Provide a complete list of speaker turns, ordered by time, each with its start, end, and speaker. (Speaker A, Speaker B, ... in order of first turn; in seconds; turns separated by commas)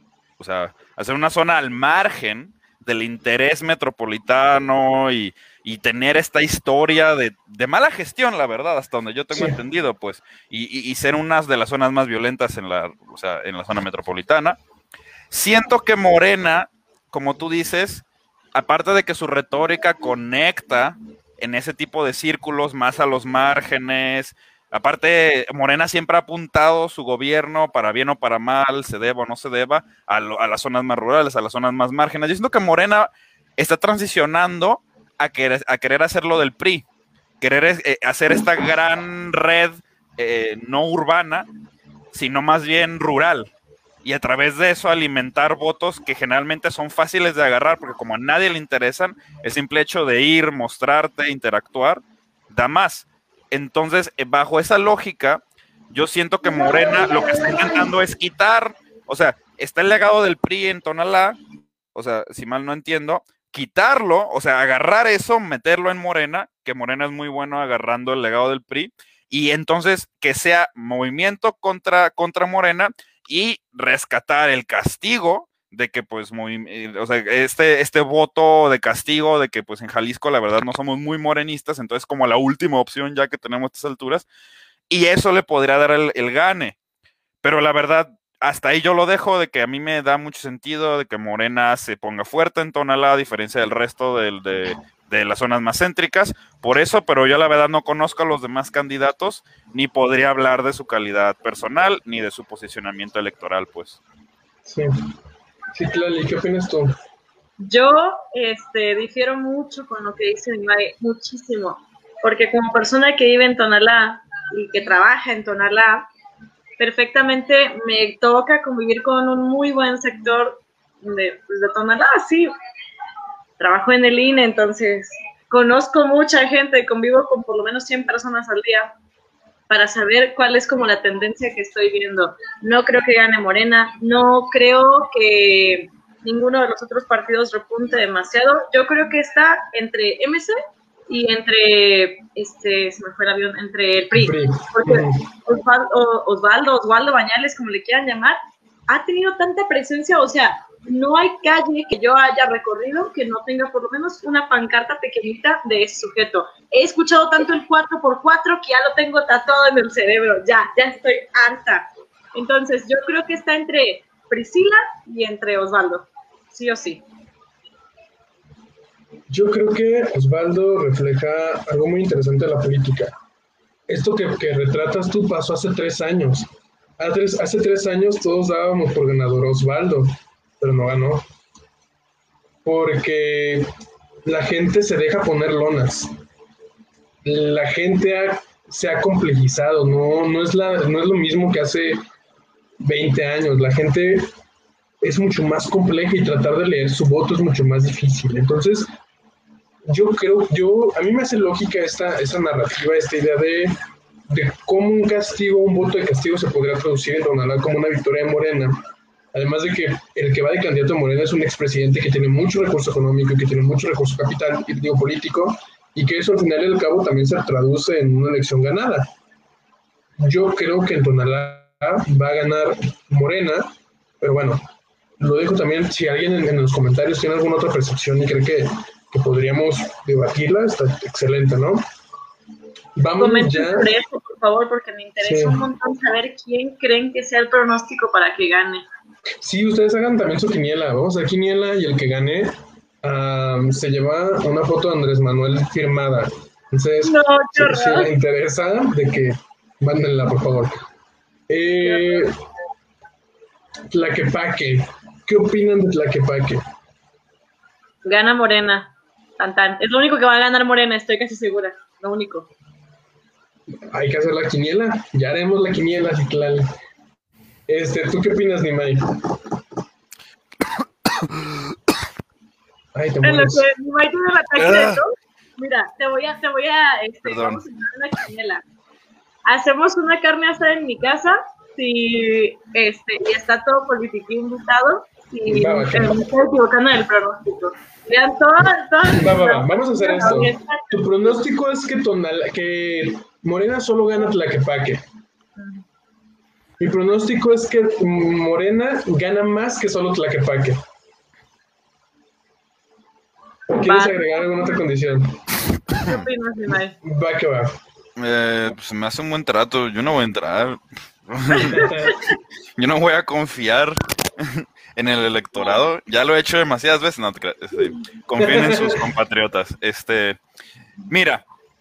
Speaker A: 0.4-14.6, Speaker B: 9.3-9.6, Speaker A: 15.3-36.9, Speaker A: 37.4-41.5, Speaker A: 42.1-43.5, Speaker A: 44.0-61.4, Speaker C: 56.4-57.9, Speaker A: 61.9-84.3, Speaker A: 84.9-86.8, Speaker A: 87.4-104.0, Speaker B: 105.7-106.9, Speaker C: 107.6-116.1, Speaker C: 116.8-122.5, Speaker C: 123.6-128.9, Speaker C: 129.7-140.5, Speaker C: 141.1-167.0, Speaker B: 144.1-145.2, Speaker B: 169.3-173.1, Speaker B: 173.9-176.5, Speaker B: 177.0-181.2, Speaker B: 182.6-183.7, Speaker B: 184.2-186.1, Speaker B: 187.2-192.0, Speaker B: 192.8-194.3, Speaker B: 195.0-198.9, Speaker B: 199.9-203.7, Speaker B: 204.3-208.8, Speaker B: 209.3-219.1, Speaker B: 220.2-224.6, Speaker B: 225.2-231.8, Speaker B: 233.0-233.9, Speaker C: 233.2-238.9, Speaker B: 235.2-235.6, Speaker B: 239.4-250.7, Speaker C: 247.0-248.1, Speaker B: 251.5-252.3, Speaker C: 251.8-252.3, Speaker B: 253.9-256.6, Speaker C: 258.0-262.5, Speaker B: 263.9-266.7, Speaker B: 267.7-269.4, Speaker A: 271.2-271.6, Speaker B: 272.9-273.6, Speaker C: 273.2-278.6, Speaker A: 274.6-275.0, Speaker A: 277.2-277.6, Speaker C: 279.4-291.4, Speaker B: 285.5-286.2, Speaker B: 289.1-295.0, Speaker C: 295.6-295.8, Speaker B: 296.8-300.8, Speaker B: 303.7-305.4, Speaker C: 303.8-304.8, Speaker C: 305.9-306.9, Speaker B: 307.0-307.7, Speaker A: 308.2-311.9, Speaker B: 311.6-312.2, Speaker C: 311.8-312.1, Speaker A: 312.8-320.4, Speaker B: 318.4-319.0, Speaker A: 321.1-321.4